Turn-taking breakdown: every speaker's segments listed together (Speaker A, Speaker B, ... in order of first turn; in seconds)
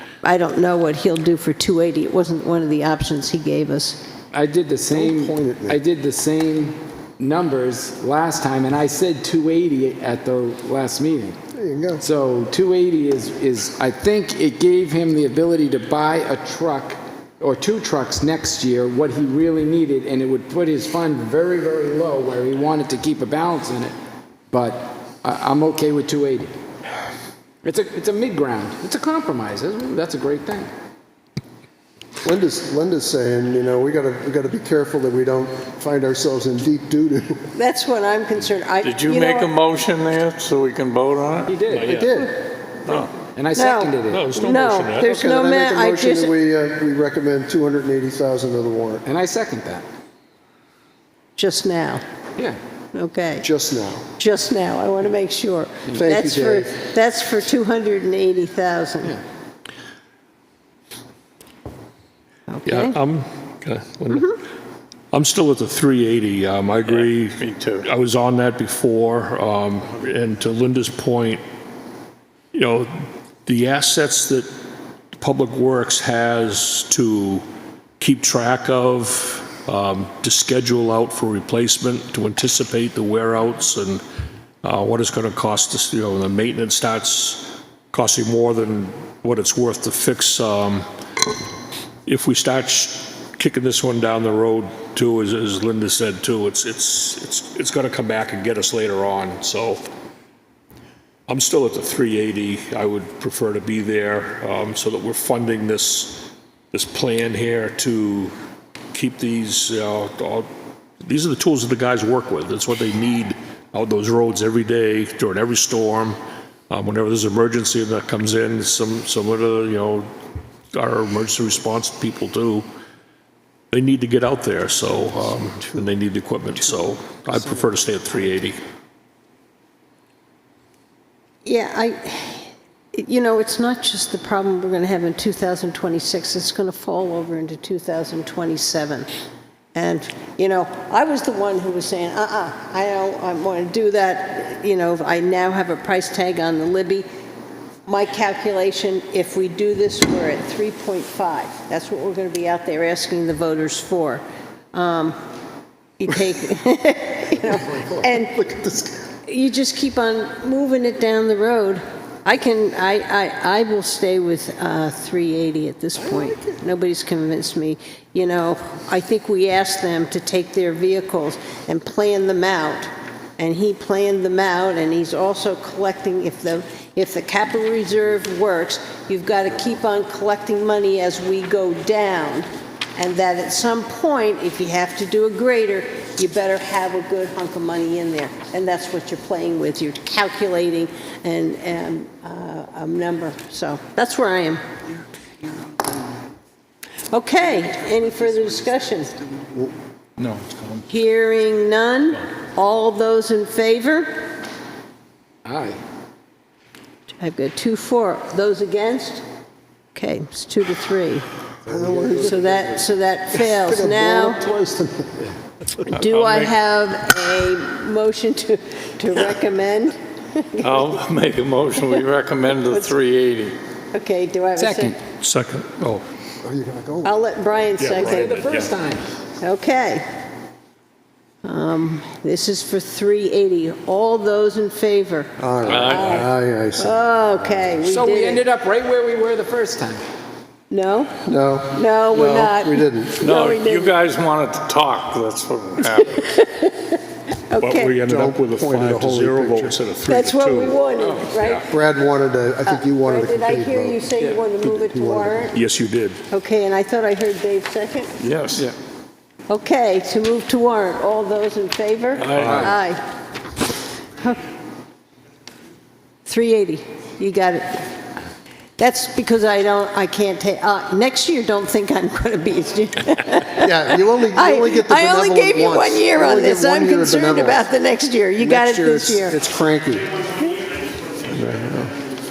Speaker A: 0.2-4.0, 37.5-39.5, 43.5-46.4, 51.4-52.0, 52.9-53.5, 54.2-59.2, 62.5-63.0, 131.4-139.1, 139.7-147.1, 147.8-155.2, 156.0-158.4, 159.2-194.6, 197.1-199.2, 200.8-204.2, 207.2-209.2, 209.9-211.2, 212.1-214.4, 215.8-220.9, 221.8-222.0, 222.7-222.9, 223.9-225.0, 227.0-228.4, 229.4-230.1, 231.4-238.4, 240.7-241.2, 241.7-244.0, 246.0-247.9, 250.1-251.7, 252.7-255.6, 256.3-258.1, 259.5-263.0, 266.2-267.9, 268.8-279.4
Speaker B: 4.3-11.4, 12.0-23.9, 24.5-26.5, 27.6-30.7, 41.5-42.2, 43.3-44.3, 49.0-49.8, 55.9-56.7, 205.4-205.8, 211.8-212.1, 224.6-225.0, 227.9-229.1, 237.8-240.0, 251.0-251.7, 262.3-262.7
Speaker C: 4.9-5.8, 11.5-12.0, 32.2-37.4, 41.8-42.4, 45.0-49.0, 53.4-54.1, 56.0-56.6, 157.5-159.1, 166.0-166.6, 211.7-212.8, 213.4-215.2, 226.4-227.1, 235.4-237.0, 241.2-243.3, 248.0-249.8, 251.7-255.5, 273.6-277.6, 278.4-280.1, 281.3-281.9
Speaker D: 38.8-41.5, 220.6-223.6, 243.2-246.1
Speaker E: 41.5-42.2, 42.8-43.1, 44.1-45.2, 62.6-64.3, 65.1-71.4, 72.5-72.9, 73.5-74.5, 75.2-77.4, 78.0-84.0, 84.6-90.8, 92.1-99.9, 101.3-108.3, 108.9-110.5, 111.0-116.2, 116.7-120.1, 120.7-122.7, 123.7-128.6, 200.2-200.6, 215.9-216.5, 220.6-221.0, 225.2-226.0, 227.8-228.7, 235.7-236.3, 243.3-243.8, 245.9-246.2, 247.6-250.8, 255.5-256.2, 258.2-258.7, 262.2-262.8